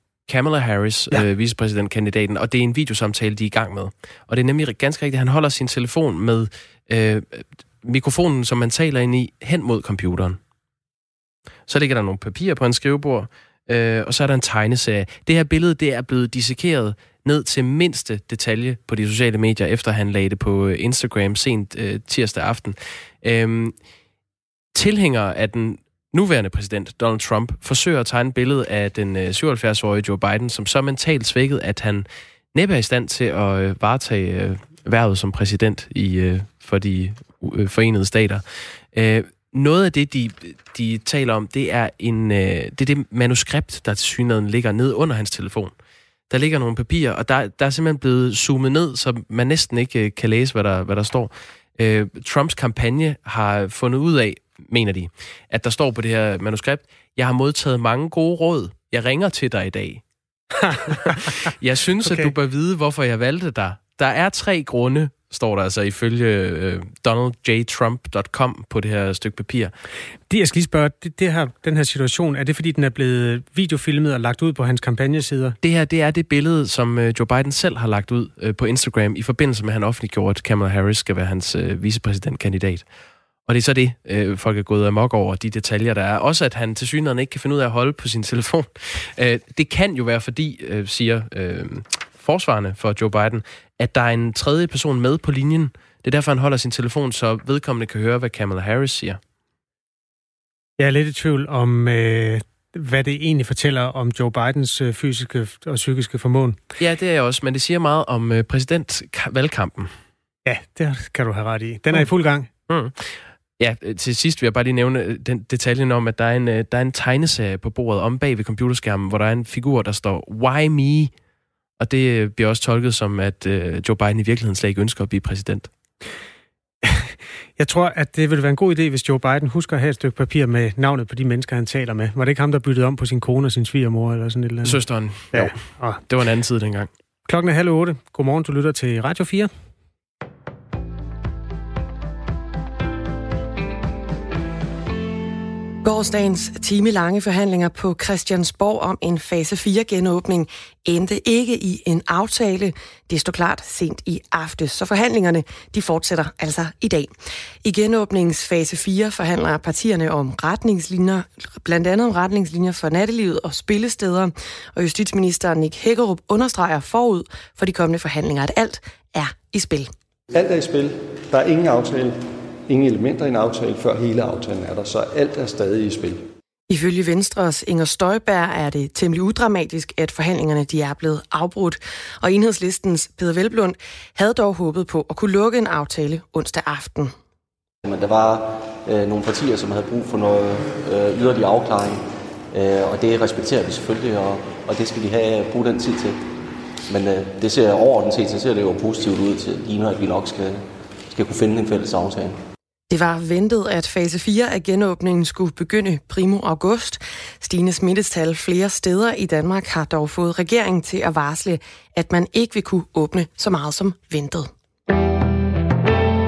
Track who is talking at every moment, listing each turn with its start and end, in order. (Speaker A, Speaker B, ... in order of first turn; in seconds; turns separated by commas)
Speaker A: 0.3-10.4, Speaker A: 11.7-23.8, Speaker A: 24.7-45.7, Speaker A: 46.3-60.0, Speaker B: 60.6-61.3, Speaker A: 60.9-69.7, Speaker B: 62.0-62.3, Speaker B: 70.3-75.6, Speaker A: 75.6-82.8, Speaker A: 83.5-99.2, Speaker B: 100.8-106.6, Speaker A: 106.8-109.9, Speaker B: 110.4-112.5, Speaker A: 112.7-121.1, Speaker A: 121.8-125.7, Speaker B: 126.8-134.8, Speaker A: 134.6-136.9, Speaker B: 135.3-136.0, Speaker B: 137.2-139.5, Speaker C: 145.8-169.9, Speaker D: 170.3-176.3, Speaker C: 176.7-187.1, Speaker E: 187.8-196.3, Speaker E: 196.9-202.4, Speaker C: 202.9-214.5